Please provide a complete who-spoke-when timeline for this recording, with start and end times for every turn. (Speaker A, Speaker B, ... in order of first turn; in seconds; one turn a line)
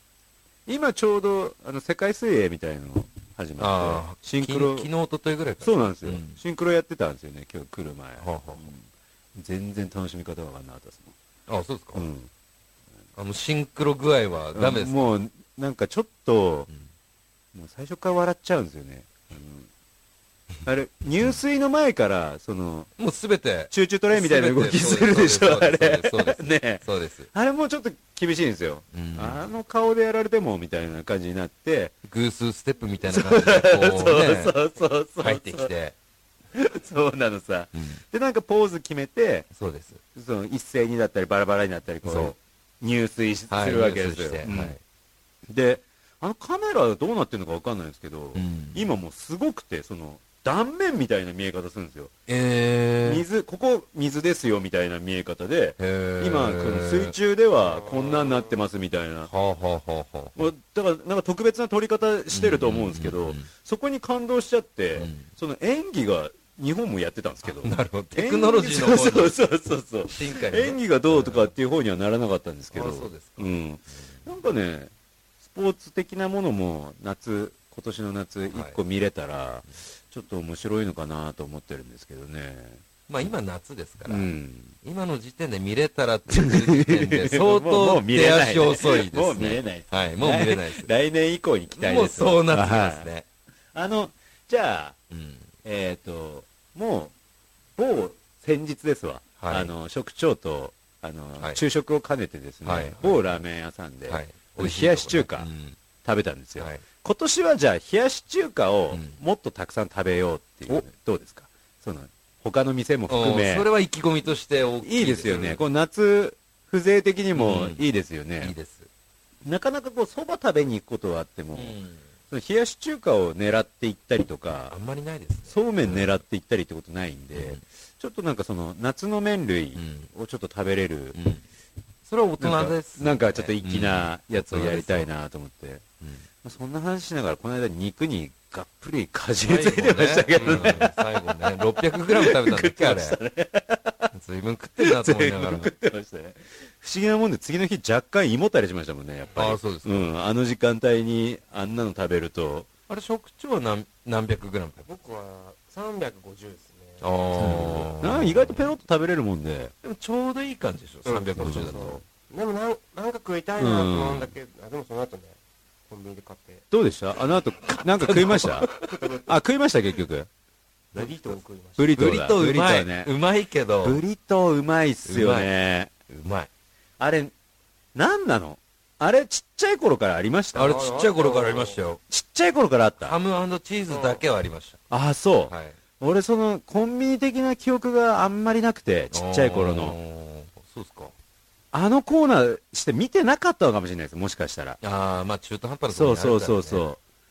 Speaker A: 0.7-4.9
Speaker B: 3.6-6.4
Speaker A: 5.6-11.1
Speaker B: 8.2-8.7
Speaker B: 11.5-12.1
Speaker A: 11.9-12.3
Speaker B: 13.2-15.0
Speaker A: 14.6-16.7
Speaker A: 17.5-19.7
Speaker A: 20.6-22.9
Speaker B: 23.0-27.3
Speaker A: 23.7-31.9
Speaker B: 28.9-29.4
Speaker B: 32.0-34.6
Speaker A: 33.0-35.7
Speaker B: 35.2-36.0
Speaker A: 36.5-39.5
Speaker B: 37.8-38.0
Speaker B: 39.5-40.0
Speaker A: 40.1-44.8
Speaker B: 42.0-42.4
Speaker B: 43.5-44.8
Speaker A: 45.5-52.1
Speaker B: 48.4-48.9
Speaker B: 52.3-53.2
Speaker A: 53.0-59.3
Speaker B: 55.8-57.1
Speaker C: 57.6-58.5
Speaker B: 59.3-60.5
Speaker A: 60.4-74.9
Speaker B: 62.3-63.5
Speaker B: 65.0-65.2
Speaker B: 67.5-69.4
Speaker B: 70.1-71.5
Speaker B: 72.7-74.1
Speaker A: 75.5-82.8
Speaker B: 78.5-78.8
Speaker B: 83.1-84.3
Speaker A: 84.1-84.8
Speaker B: 84.8-90.9
Speaker A: 86.3-93.1
Speaker B: 91.8-93.3
Speaker A: 93.7-95.0
Speaker B: 95.1-95.5
Speaker A: 95.6-97.1
Speaker A: 97.8-105.5
Speaker B: 99.4-99.7
Speaker B: 102.6-103.4
Speaker B: 104.1-105.8
Speaker A: 106.0-113.7
Speaker B: 106.6-106.8
Speaker B: 108.9-109.2
Speaker B: 113.1-115.6
Speaker A: 114.8-118.5
Speaker B: 117.3-117.8
Speaker B: 118.4-118.9
Speaker A: 119.4-121.8
Speaker B: 121.5-122.1
Speaker A: 122.3-124.8
Speaker B: 124.7-126.2
Speaker A: 125.5-131.2
Speaker B: 127.3-127.6
Speaker B: 129.8-130.1
Speaker B: 131.1-131.4
Speaker B: 132.1-135.1
Speaker A: 132.4-135.8
Speaker A: 136.4-144.1
Speaker B: 139.4-143.2
Speaker C: 140.4-140.7
Speaker B: 144.1-145.7
Speaker A: 144.8-152.7
Speaker B: 149.3-150.1
Speaker B: 152.9-154.9
Speaker C: 154.9-157.2
Speaker B: 157.0-158.6
Speaker A: 157.3-159.7
Speaker B: 159.8-162.0
Speaker C: 161.1-165.4
Speaker A: 161.4-161.7
Speaker A: 163.6-164.3
Speaker C: 165.9-166.6
Speaker A: 166.7-168.7
Speaker B: 167.7-169.0
Speaker C: 168.7-169.3
Speaker A: 169.2-170.3
Speaker C: 170.9-171.9
Speaker A: 171.8-173.1
Speaker B: 171.9-174.0
Speaker A: 173.8-175.9
Speaker B: 175.1-175.5
Speaker B: 176.1-176.5
Speaker A: 177.0-177.3
Speaker A: 177.9-180.8
Speaker B: 180.6-182.0
Speaker C: 180.6-181.8
Speaker A: 182.1-183.2
Speaker B: 183.0-184.8
Speaker C: 183.9-184.2
Speaker A: 184.9-190.0
Speaker B: 185.5-185.8
Speaker B: 189.1-191.1
Speaker A: 191.7-194.8
Speaker B: 194.8-196.9
Speaker A: 195.9-197.0